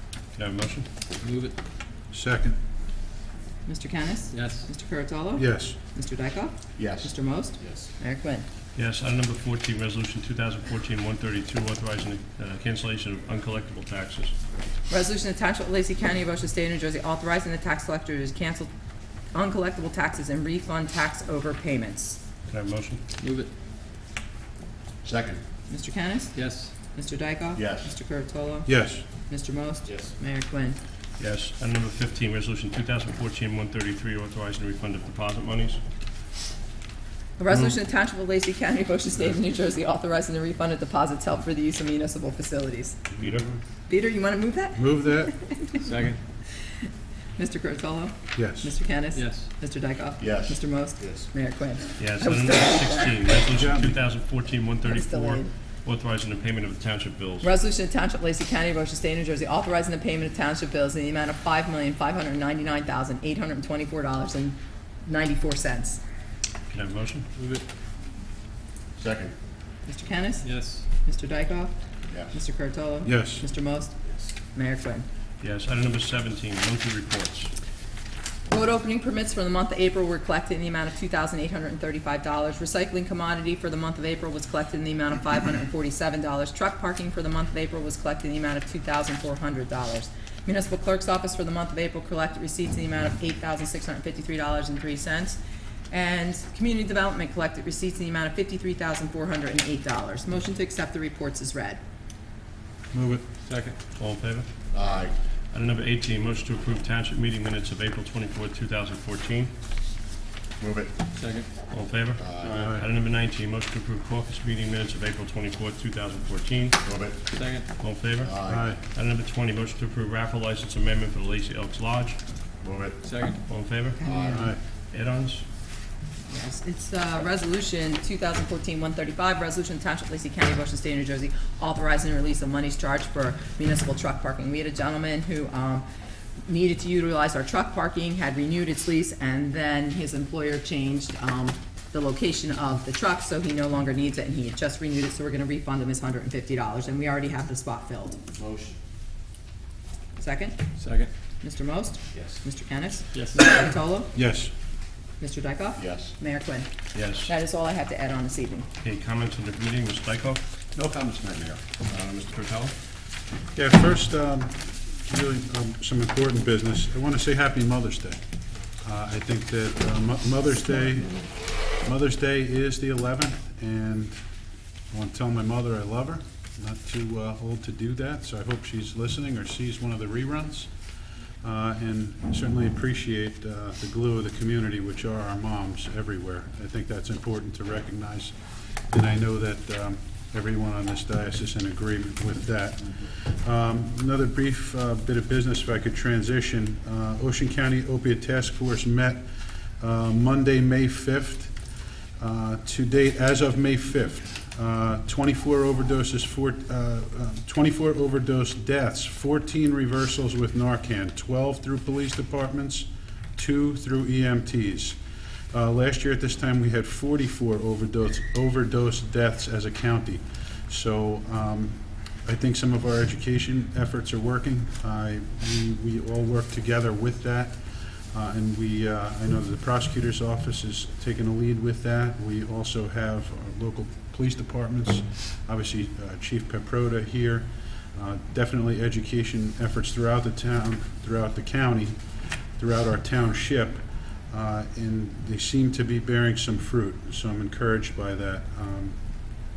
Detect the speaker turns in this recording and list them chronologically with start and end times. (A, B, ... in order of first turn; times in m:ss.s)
0:00.4-0:00.9 A
0:01.2-0:01.6 B
0:02.1-0:02.6 C
0:03.7-0:08.5 D
0:04.3-0:04.6 B
0:05.4-0:05.8 C
0:06.8-0:07.8 E
0:08.8-0:14.3 A
0:14.9-0:18.7 D
0:19.3-0:22.2 D
0:22.5-0:23.0 A
0:23.2-0:23.5 B
0:25.0-0:25.4 E
0:25.7-0:28.7 D
0:26.3-0:26.7 B
0:27.6-0:27.9 E
0:28.7-0:29.0 C
0:29.3-0:30.8 D
0:31.2-0:35.8 A
0:37.4-0:43.0 D
0:43.2-0:43.6 C
0:43.2-0:43.5 A
0:43.9-0:45.8 D
0:44.8-0:45.4 C
0:45.8-0:46.2 B
0:47.4-0:53.2 D
0:48.4-0:48.7 C
0:49.1-0:49.5 B
0:50.2-0:51.3 E
0:52.0-0:57.5 A
0:53.5-0:54.0 C
0:54.8-0:55.5 D
0:57.4-1:06.0 D
1:06.7-1:07.3 A
1:07.4-1:07.6 B
1:09.0-1:09.4 E
1:09.9-1:11.7 D
1:10.4-1:10.8 B
1:12.1-1:12.4 E
1:12.3-1:13.9 D
1:13.0-1:13.4 C
1:14.5-1:15.0 D
1:15.4-1:17.5 A
1:18.5-1:35.4 D
1:35.9-1:41.8 D
1:42.9-1:43.2 C
1:43.4-1:43.8 B
1:44.0-1:44.5 A
1:44.7-1:45.2 E
1:45.5-1:49.5 A
1:50.6-1:51.0 E
1:51.2-1:51.5 B
1:51.7-1:56.8 A
1:52.2-1:52.7 E
1:52.5-1:52.9 C
1:56.8-1:57.2 E
1:57.3-1:57.7 B
1:57.8-1:58.3 A
1:58.2-1:58.7 E
1:58.5-1:58.8 C
1:58.9-2:02.2 A
2:02.6-2:03.0 E
2:03.0-2:03.4 B
2:03.4-2:04.0 A
2:04.0-2:04.5 D
2:04.1-2:04.5 E
2:04.2-2:04.6 C
2:04.9-2:05.4 A
2:06.3-2:15.9 D
2:16.5-2:28.2 D
2:28.4-2:28.8 E
2:30.2-2:30.6 D
2:30.8-2:31.1 B
2:31.4-2:34.1 D
2:33.1-2:33.4 B
2:34.1-2:34.5 C
2:35.2-2:36.7 D
2:35.8-2:36.1 E
2:37.0-2:37.3 A
2:37.2-2:38.7 D
2:38.8-2:40.4 A
2:40.8-2:41.8 E
2:41.8-2:42.7 A
2:43.6-2:48.2 C
2:48.8-2:54.2 C
2:54.9-3:00.7 C
3:01.4-3:08.3 C
3:08.9-3:19.3 C
3:19.8-3:21.6 C
3:22.2-3:35.0 C
3:35.5-3:47.6 C
3:48.1-4:02.0 C
4:02.6-4:09.0 C